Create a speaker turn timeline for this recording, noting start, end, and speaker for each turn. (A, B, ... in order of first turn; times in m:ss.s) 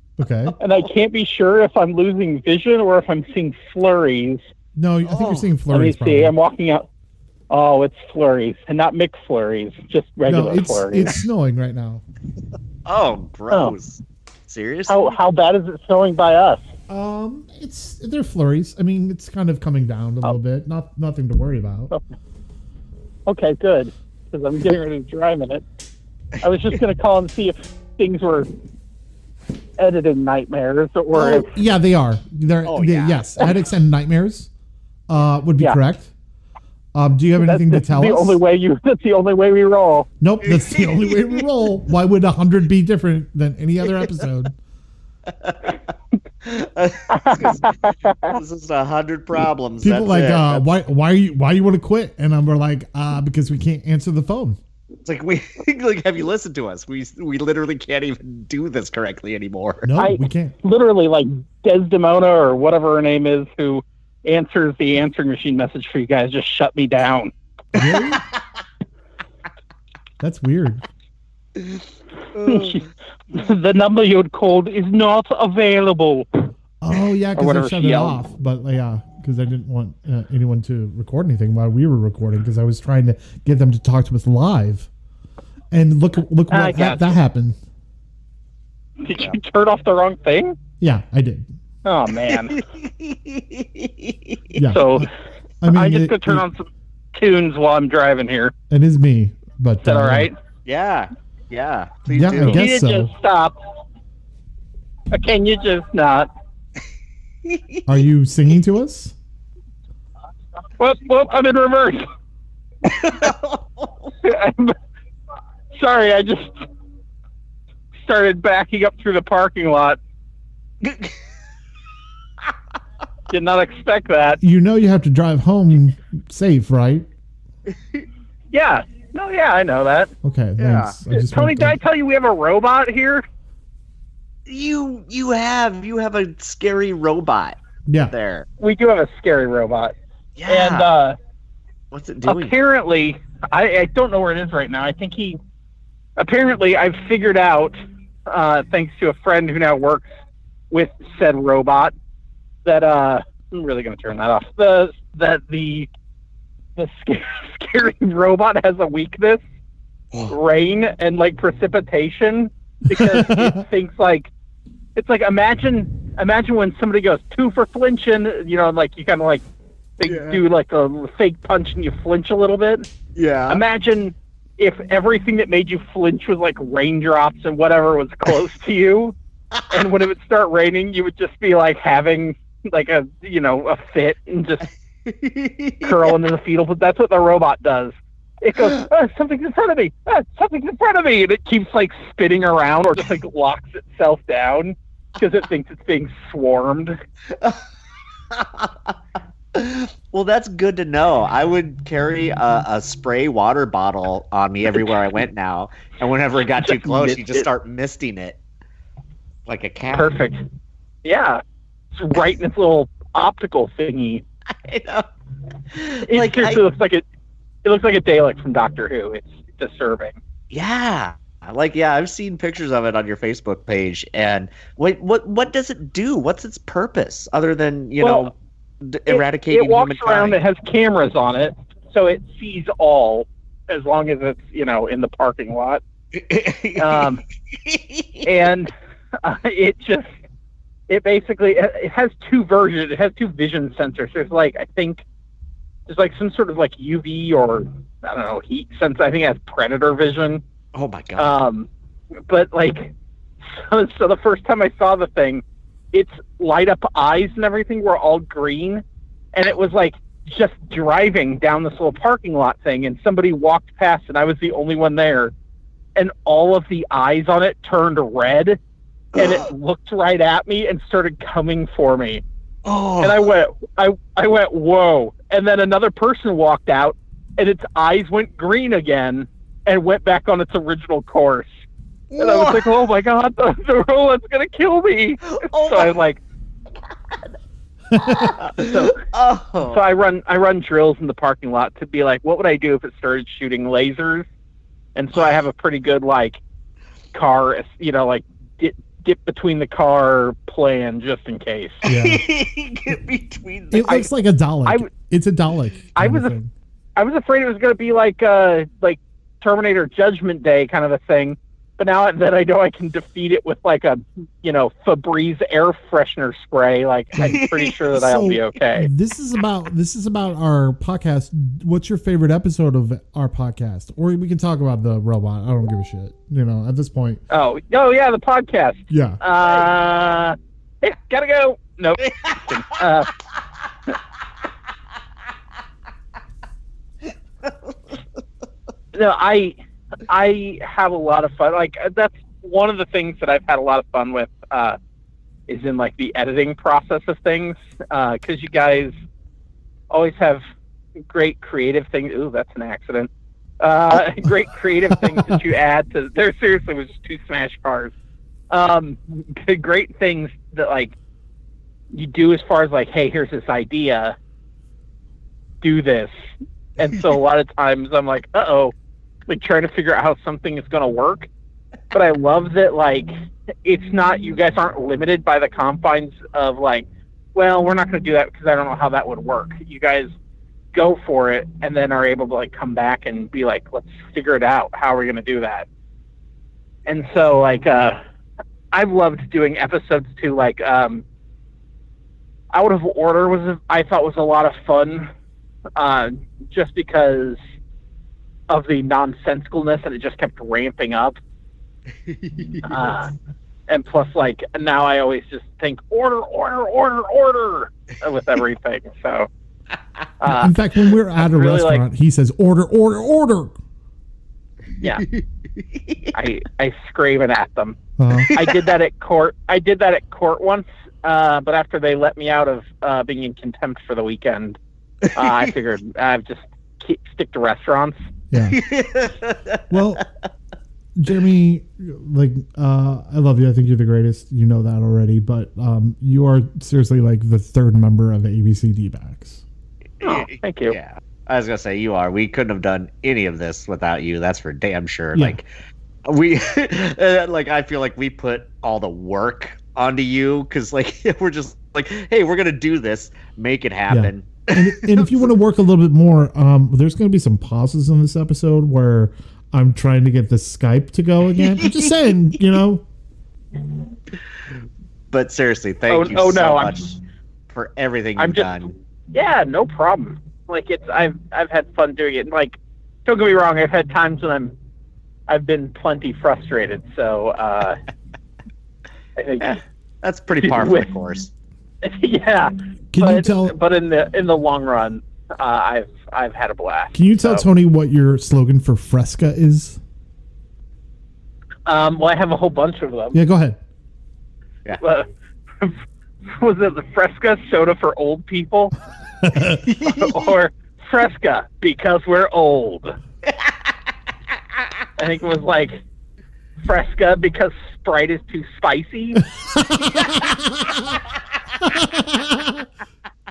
0:00.2-0:00.6 A
0:00.6-0:04.4 B
0:04.8-0:06.3 A
0:05.1-0:05.5 C
0:05.7-0:06.9 B
0:07.5-0:11.1 B
0:10.2-0:12.0 A
0:12.8-0:15.1 C
0:13.5-0:13.8 B
0:14.9-0:16.6 B
0:16.9-0:21.9 A
0:23.3-0:25.6 B
0:26.4-0:28.5 B
0:29.8-0:31.5 B
0:31.1-0:31.4 C
0:31.2-0:34.5 A
0:32.6-0:33.5 C
0:35.1-0:36.1 A
0:36.9-0:38.4 A
0:37.4-0:40.1 B
0:40.2-0:44.5 A
0:40.5-0:41.4 C
0:45.3-0:45.8 C
0:46.4-0:47.7 C
0:47.1-0:48.4 B
0:48.2-0:50.6 C
0:49.8-0:54.6 A
0:55.0-0:59.9 C
0:59.8-1:00.6 A
1:00.0-1:07.3 B
1:07.7-1:08.2 A
1:07.8-1:08.3 C
1:10.2-1:10.8 A
1:12.3-1:12.8 C
1:12.4-1:16.4 B
1:16.8-1:24.9 A
1:17.3-1:18.2 B
1:25.7-1:27.6 A
1:26.5-1:27.2 B
1:29.0-1:30.6 B
1:30.8-1:31.5 A
1:31.8-1:32.6 B
1:32.2-1:34.6 C
1:34.5-1:35.1 A
1:34.6-1:35.1 B
1:35.6-1:36.4 A
1:35.7-1:38.5 B
1:38.7-1:40.3 A
1:39.8-1:40.4 B
1:40.6-1:42.7 C
1:42.1-1:43.1 A
1:42.4-1:43.6 B
1:45.1-1:46.3 B
1:47.5-1:47.8 C
1:47.9-1:49.1 A
1:50.8-1:52.0 B
1:52.8-1:54.1 C
1:54.2-1:54.8 B
1:55.7-1:56.6 B
1:58.0-2:00.0 B
2:00.8-2:01.1 C
2:03.3-2:04.4 B
2:04.4-2:07.1 A
2:08.5-2:10.1 B
2:10.2-2:11.8 A
2:10.6-2:11.0 C
2:11.1-2:13.2 B
2:14.4-2:17.6 C
2:17.8-2:18.1 A
2:18.1-2:18.5 C
2:18.6-2:19.9 B
2:20.4-2:20.9 C
2:20.5-2:21.2 B
2:21.9-2:22.6 C
2:22.2-2:25.4 B
2:26.2-2:27.8 B
2:28.3-2:30.0 B
2:30.7-2:31.9 B
2:32.6-2:35.9 B
2:36.8-2:39.4 B
2:40.3-2:44.3 B
2:42.9-2:43.6 A
2:45.0-2:49.4 B
2:50.0-2:52.9 B
2:50.0-2:50.4 C
2:53.1-2:53.6 C
2:53.5-2:59.1 B
2:59.7-3:04.6 B
3:05.0-3:06.2 C
3:05.8-3:17.0 B
3:18.3-3:18.7 C
3:19.5-3:28.4 C
3:26.6-3:27.5 B
3:29.5-3:30.1 C
3:29.9-3:30.4 B
3:31.0-3:31.4 B
3:32.0-3:34.2 B
3:34.6-3:35.1 C
3:35.7-3:36.6 C
3:36.1-3:37.0 B
3:37.6-3:40.2 B
3:40.5-3:50.4 C
3:48.0-3:48.3 B
3:49.1-3:55.8 B
3:56.1-3:58.2 C
3:56.8-3:57.2 B
3:58.2-3:58.7 B
3:59.2-4:00.1 B
4:00.9-4:05.0 B
4:05.9-4:10.4 B
4:10.7-4:11.4 C
4:11.2-4:11.7 B
4:12.3-4:12.9 B
4:13.4-4:18.8 B
4:19.3-4:25.3 B
4:26.0-4:28.6 B
4:29.1-4:32.2 B
4:29.2-4:29.4 C
4:32.6-4:33.3 C
4:33.0-4:41.5 B
4:42.1-4:42.8 C
4:42.1-4:46.2 B
4:45.2-4:45.9 C
4:47.9-4:48.3 A
4:48.0-4:49.8 C
4:49.6-4:54.3 B
4:54.9-4:56.4 B
4:57.1-5:01.8 B
5:01.8-5:02.2 A
5:01.9-5:04.1 C
5:03.7-5:06.5 A
5:06.0-5:06.3 B
5:07.0-5:18.9 B
5:17.2-5:18.0 C
5:17.9-5:27.2 A
5:27.3-5:33.1 B
5:28.9-5:29.2 A
5:32.1-5:32.4 C
5:38.9-5:39.6 B
5:40.1-5:44.8 B
5:45.5-5:48.9 B
5:49.9-5:50.4 B
5:51.1-5:57.9 B
5:58.5-6:00.9 B
6:01.9-6:04.2 B
6:05.6-6:06.1 B
6:06.8-6:08.7 B
6:09.3-6:11.3 B
6:11.9-6:13.1 B
6:13.6-6:20.1 B
6:20.7-6:25.7 B
6:26.8-6:28.0 B
6:28.7-6:31.0 B
6:32.5-6:35.1 B
6:35.8-6:37.4 B
6:38.5-6:41.2 B
6:42.1-6:42.7 C
6:42.6-6:43.1 B
6:43.7-6:49.3 B
6:50.2-6:50.6 B
6:50.2-6:53.6 A
6:51.2-6:51.8 B
6:54.8-6:56.1 C
6:56.1-6:57.8 B
6:58.0-6:58.3 A
6:58.3-7:04.6 B
7:05.2-7:08.0 B
7:08.3-7:08.6 A
7:08.5-7:09.6 C
7:09.7-7:10.0 A
7:11.0-7:19.4 A
7:20.0-7:25.5 C
7:20.0-7:20.8 B
7:26.0-7:35.3 C
7:33.9-7:42.8 A
7:45.1-7:47.0 C
7:45.9-7:46.9 B
7:47.5-7:48.7 C
7:48.2-7:48.6 B
7:49.1-7:54.5 B
7:55.3-7:57.8 B
7:59.2-7:59.6 B
7:59.4-8:01.3 C
8:00.4-8:00.9 B
8:01.8-8:07.4 B
8:02.9-8:03.6 A
8:06.9-8:09.8 A
8:11.6-8:13.2 B
8:13.1-8:13.6 A
8:14.8-8:15.1 B
8:16.3-8:18.7 B
8:19.2-8:19.6 A
8:19.6-8:20.3 C
8:19.9-8:23.0 B
8:25.0-8:25.8 B
8:26.6-8:29.2 B
8:29.5-8:30.7 A
8:31.7-8:32.6 A